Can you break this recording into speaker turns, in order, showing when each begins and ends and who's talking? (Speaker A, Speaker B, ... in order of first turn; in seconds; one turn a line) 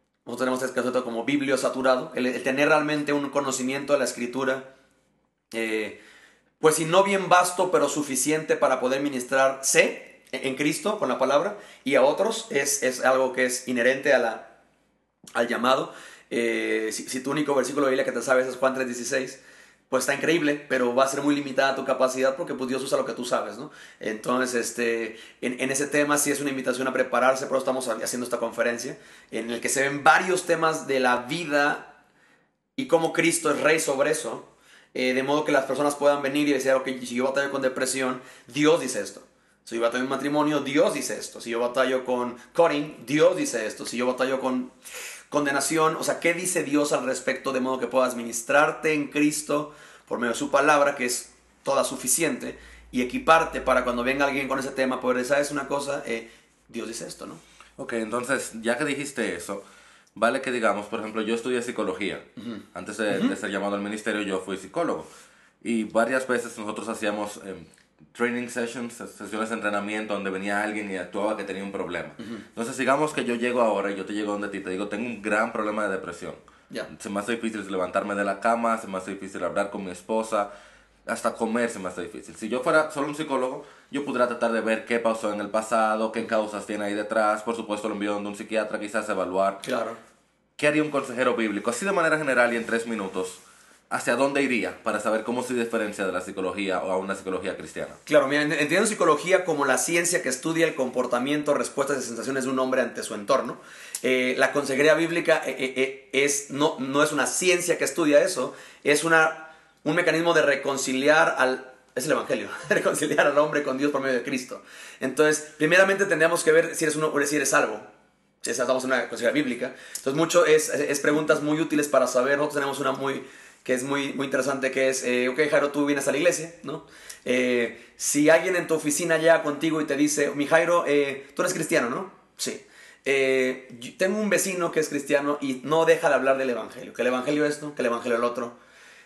Speaker A: 0.3-4.7
Speaker A: 5.5-6.0
Speaker A: 6.6-14.5
Speaker A: 15.4-32.0
Speaker A: 32.8-44.7
Speaker A: 45.3-57.4
Speaker B: 57.8-59.6
Speaker B: 60.1-65.1
Speaker A: 62.4-63.4
Speaker B: 65.6-80.5
Speaker B: 81.1-89.6
Speaker A: 89.6-90.0
Speaker B: 90.6-98.0
Speaker A: 98.1-117.9
Speaker A: 118.4-138.6